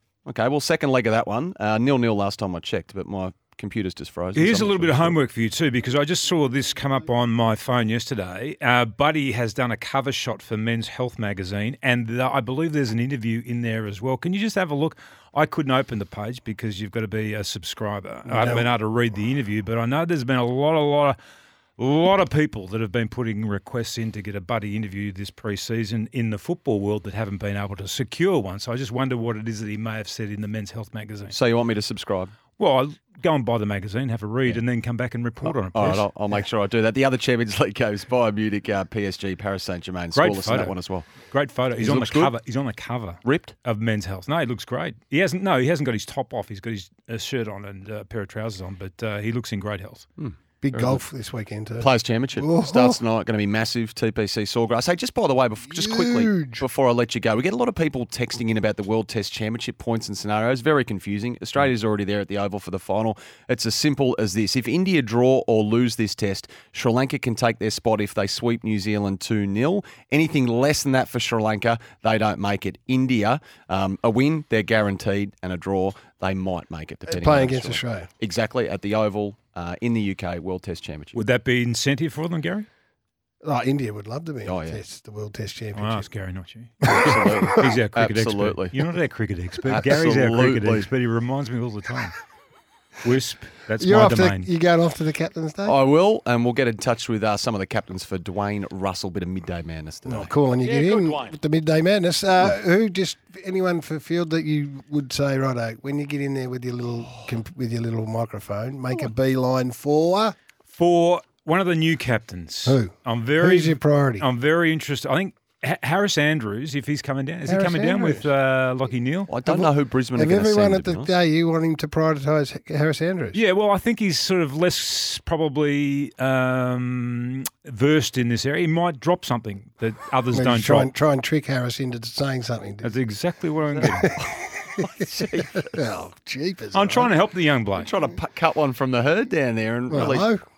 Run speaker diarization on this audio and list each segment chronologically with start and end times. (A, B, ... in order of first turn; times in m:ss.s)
0:00.3-0:05.2 A
0:04.4-0:21.2 B
0:18.3-0:18.7 C
0:21.8-0:31.4 B
0:31.3-0:32.3 A
0:32.6-0:36.1 B
0:35.7-0:41.1 A
0:40.1-0:50.1 B
0:41.8-0:42.3 A
0:43.2-0:43.6 A
0:50.2-0:51.0 A
0:50.6-0:53.0 C
0:51.8-1:21.2 A
0:55.7-0:56.6 C
1:17.1-1:18.1 C
1:21.1-1:22.7 B
1:23.4-1:26.1 C
1:24.4-1:24.8 A
1:25.7-1:32.2 B
1:26.8-1:27.7 C
1:27.0-1:28.8 A
1:29.7-1:30.9 A
1:33.0-1:34.5 B
1:33.8-1:35.8 C
1:35.7-1:41.3 A
1:40.1-1:50.4 C
1:50.7-1:59.3 B
1:52.7-1:54.3 C
1:57.5-1:58.3 C
1:59.3-2:01.1 A
1:59.5-2:03.4 C
2:03.3-2:10.9 B
2:10.3-2:13.0 C
2:12.8-2:14.1 B
2:13.7-2:14.1 A
2:13.9-2:17.2 C
2:14.8-2:15.7 A
2:16.7-2:17.9 B
2:17.8-2:20.3 A
2:19.9-2:20.4 C